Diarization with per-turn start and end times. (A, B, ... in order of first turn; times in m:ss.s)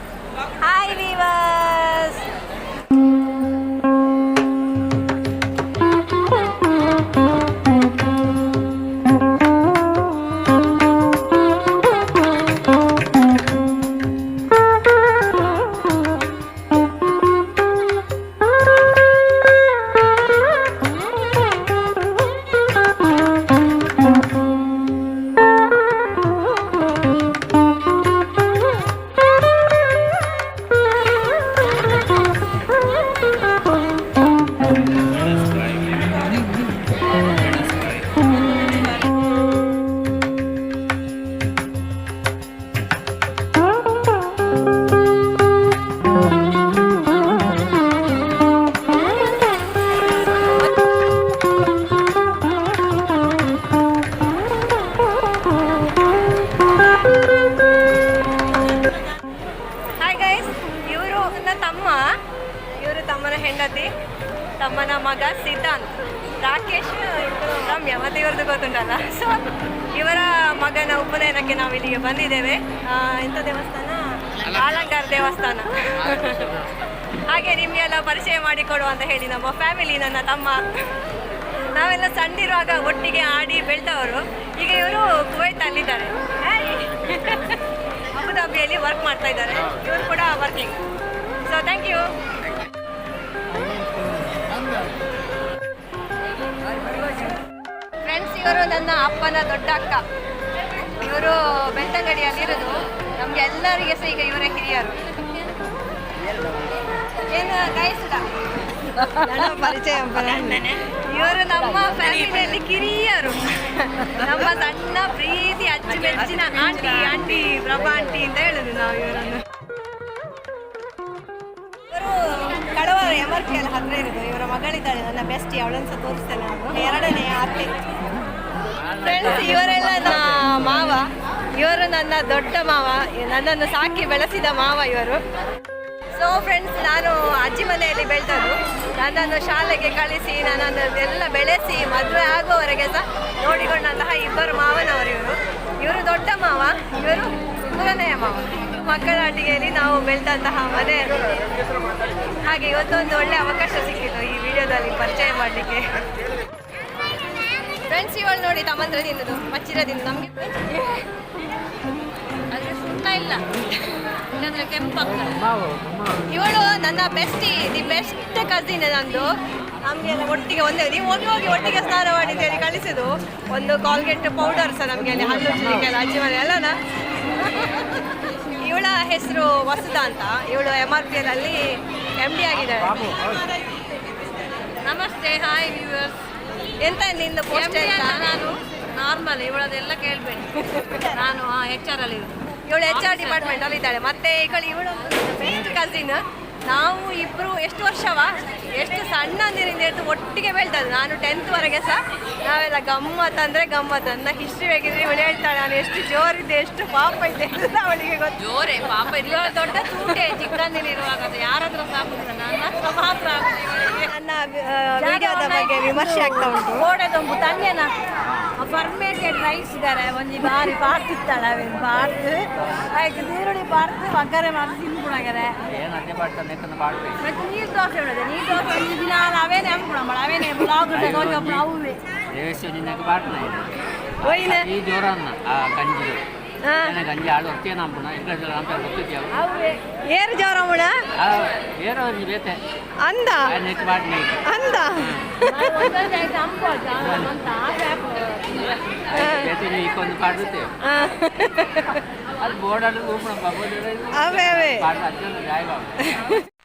0:00.6-0:02.3 A
1:00.0-1:02.0 A
1:02.8-1:03.9 A
1:04.6-1:16.6 A
1:17.3-1:20.6 A
1:21.7-1:27.6 A
1:28.1-1:30.8 A
1:31.4-1:32.1 A
1:38.0-1:40.0 A
1:40.8-1:45.0 A
1:47.3-1:48.3 A
1:48.9-1:59.5 A
2:01.9-2:07.8 A
2:08.6-2:10.8 B
2:09.0-2:15.2 A
2:16.2-2:31.2 A
2:32.4-2:36.0 A
2:37.7-2:41.1 A
2:42.5-2:43.6 C
2:44.2-2:45.5 C
2:45.6-2:45.9 B
2:46.2-2:49.3 A
2:49.8-2:56.8 A
2:57.3-2:57.9 A
2:58.6-3:01.6 A
3:02.2-3:03.3 A
3:04.9-3:06.1 C
3:04.9-3:05.5 A
3:06.8-3:08.4 A
3:07.5-3:10.4 C
3:10.4-3:30.4 A
3:13.0-3:13.4 C
3:28.4-3:34.1 C
3:34.1-3:36.9 A
3:35.0-3:37.9 C
3:38.2-3:38.5 B
3:38.6-3:45.6 C
3:42.6-3:42.9 B
3:45.6-3:47.2 B
3:47.2-3:52.0 C
3:50.9-3:56.2 B
3:54.2-3:54.7 A
3:56.6-3:57.0 A
3:56.8-3:59.4 B
3:59.3-3:59.9 C
4:00.0-4:01.0 A
4:01.2-4:02.6 B
4:03.0-4:03.6 A
4:03.4-4:04.4 B
4:04.4-4:05.8 A
4:05.4-4:08.7 C
4:07.0-4:07.4 B
4:09.1-4:10.7 B
4:09.2-4:09.5 A
4:10.8-4:12.0 A
4:12.4-4:16.2 B
4:14.1-4:14.9 A
4:16.1-4:16.4 A